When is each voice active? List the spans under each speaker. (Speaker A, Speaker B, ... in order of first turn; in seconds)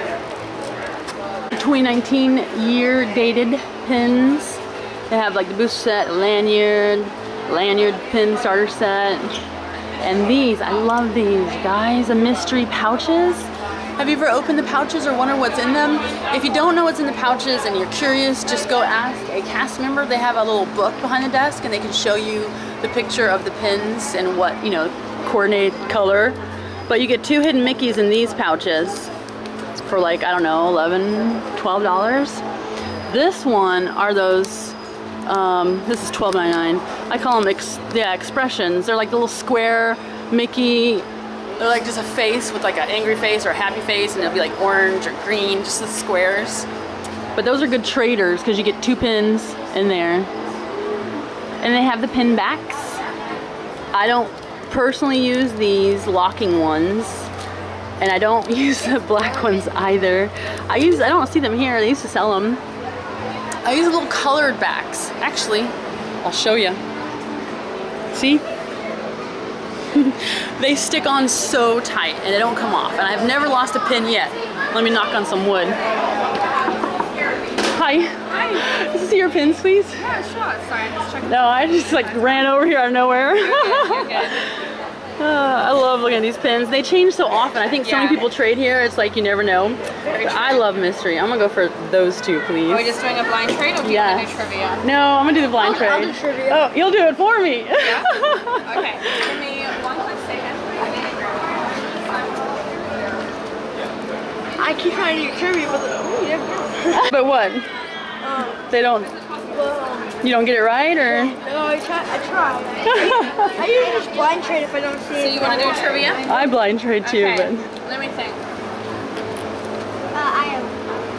Speaker A: 1.5-9.4, 10.0-29.1, 29.8-32.4, 33.1-41.0, 41.6-46.7, 47.4-50.3, 51.6-53.0, 53.9-57.3, 58.0-62.6, 63.6-66.8, 68.1-68.4, 69.9-75.8, 77.7-80.0, 81.2-84.4, 85.2-92.9, 93.8-94.3, 94.8-99.2, 106.9-107.7, 108.7-109.1, 110.2-111.4, 112.8-113.6, 116.2-117.7
Speaker B: 78.3-78.7, 80.0-82.5, 83.4-84.4, 87.8-88.3, 90.1-90.6, 92.7-94.8, 97.8-102.8, 115.1-116.5, 117.0-118.4
Speaker C: 95.6-96.6, 104.6-107.0, 108.2-108.6, 109.5-110.2, 111.1-116.2, 120.1-120.8